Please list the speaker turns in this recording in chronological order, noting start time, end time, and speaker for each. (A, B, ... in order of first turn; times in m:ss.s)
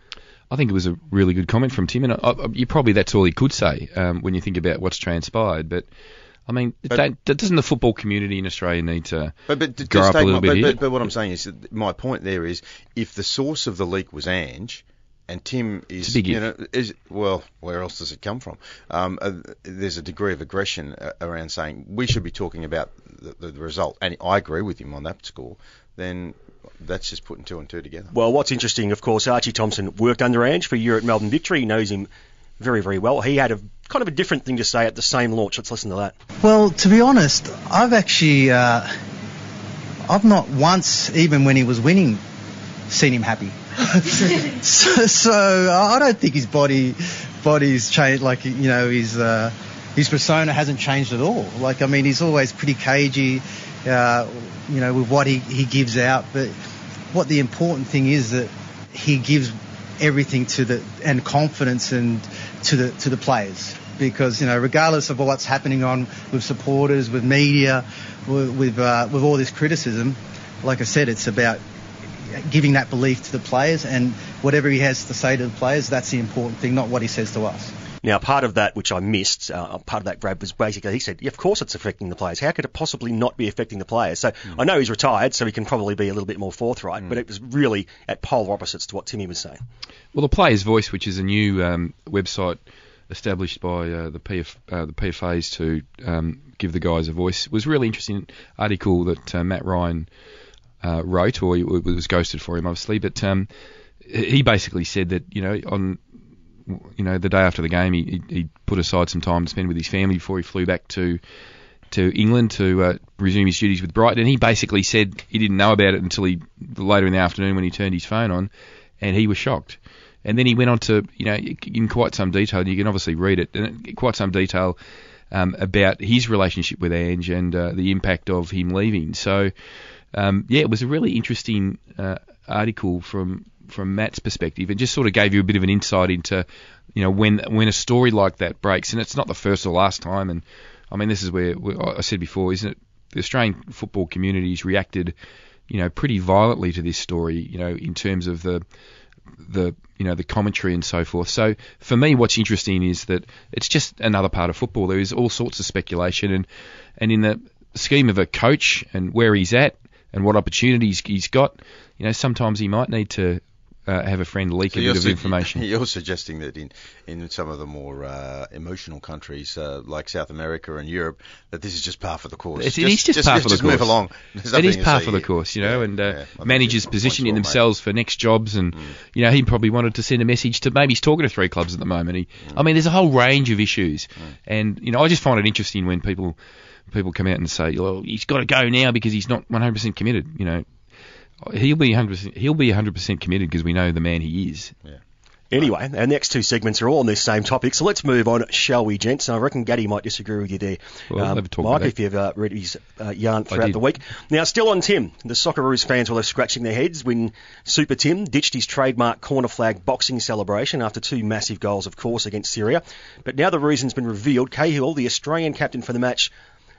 0:00.5-0:05.9 A
0:06.5-0:10.8 A
0:09.5-0:28.1 B
0:16.0-0:16.4 A
0:28.1-0:36.2 C
0:36.4-0:39.0 D
0:40.1-0:42.2 D
0:42.9-0:56.6 D
0:57.1-1:11.6 D
1:12.3-1:17.7 D
1:18.0-1:29.6 C
1:30.1-1:40.1 A
1:40.8-1:43.5 A
1:44.0-1:46.0 A
1:46.7-1:51.2 A
1:51.9-1:58.5 A
1:59.0-2:04.8 A
2:05.3-2:09.5 A
2:10.1-2:25.2 A
2:25.7-2:28.6 A
2:29.4-2:36.5 A
2:37.0-2:45.6 A
2:44.7-2:57.6 B
2:52.6-2:54.0 A
2:54.5-3:06.4 A
3:06.9-3:10.7 A
3:11.4-3:14.7 A
3:15.5-3:36.3 C
3:21.1-3:21.9 A
3:23.5-3:23.8 A